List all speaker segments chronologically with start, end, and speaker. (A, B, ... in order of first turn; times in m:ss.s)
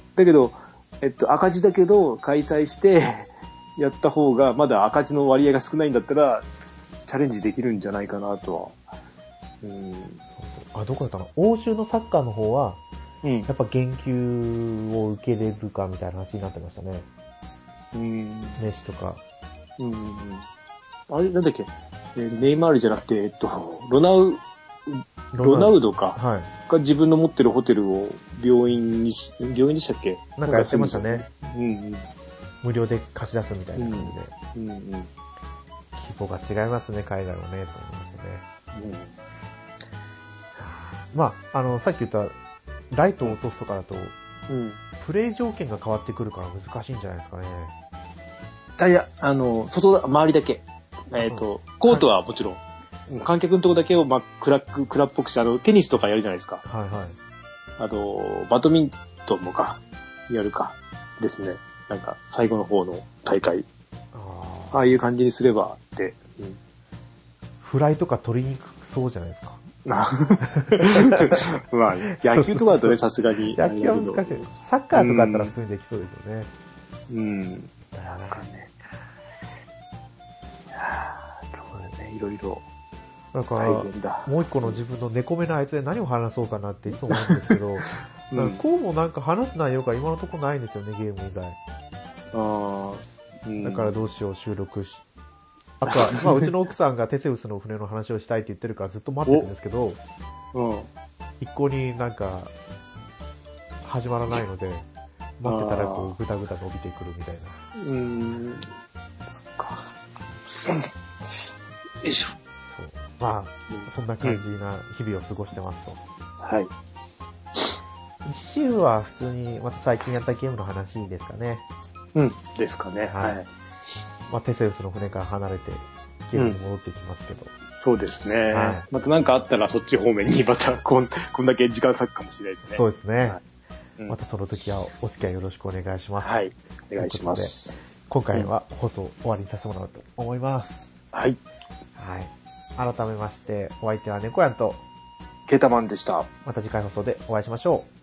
0:00.2-0:06.4 A
0:07.1-0:08.8 A
0:09.6-0:10.2 A
0:10.4-0:12.8 B
0:13.2-0:13.5 A
0:13.5-0:17.1 B
0:17.9-0:18.6 A
0:18.6-0:19.2 B
0:19.8-0:20.4 A
0:21.1-0:32.1 A
0:25.3-0:26.5 B
0:30.4-0:31.2 B
0:32.6-0:34.3 B
0:33.8-0:35.1 A
0:36.0-0:38.4 B
0:38.7-0:39.1 A
0:40.6-0:42.3 B
0:42.9-0:44.1 B
0:44.5-0:44.8 A
0:45.0-0:47.7 B
0:48.8-0:56.6 A
0:51.2-0:52.1 B
0:56.6-0:57.2 B
0:57.8-1:03.6 A
1:04.1-1:04.8 B
1:04.7-1:06.6 A
1:07.6-1:09.6 B
1:09.8-1:15.5 A
1:10.4-1:11.4 B
1:12.1-1:13.0 B
1:13.5-1:16.5 B
1:17.1-1:17.7 A
1:17.9-1:18.4 B
1:18.3-1:18.7 A
1:20.7-1:22.6 A
1:23.3-1:31.6 B
1:23.5-1:24.8 A
1:27.1-1:28.6 A
1:32.3-1:33.9 A
1:33.6-1:35.0 B
1:35.8-1:40.0 B
1:35.9-1:36.5 A
1:39.2-1:39.5 A
1:40.5-1:40.9 A
1:41.4-1:42.5 B
1:43.8-1:44.8 B
1:45.4-1:47.6 B
1:45.4-1:46.1 A
1:47.8-1:48.7 A
1:49.3-1:49.9 A
1:52.0-1:52.3 A
1:52.6-1:56.0 B
1:53.7-1:54.4 A
1:56.4-1:56.7 A
1:58.2-2:01.6 B
2:02.1-2:03.5 A
2:03.0-2:03.4 B
2:04.3-2:07.5 B
2:06.3-2:06.6 A
2:07.8-2:13.4 A
2:08.5-2:08.8 B
2:12.7-2:13.4 B
2:14.1-2:16.3 B
2:16.2-2:17.8 A
2:17.0-2:17.6 B
2:18.1-2:20.9 B
2:21.1-2:21.4 A
2:22.0-2:24.8 B
2:25.5-2:26.3 A
2:26.4-2:27.9 B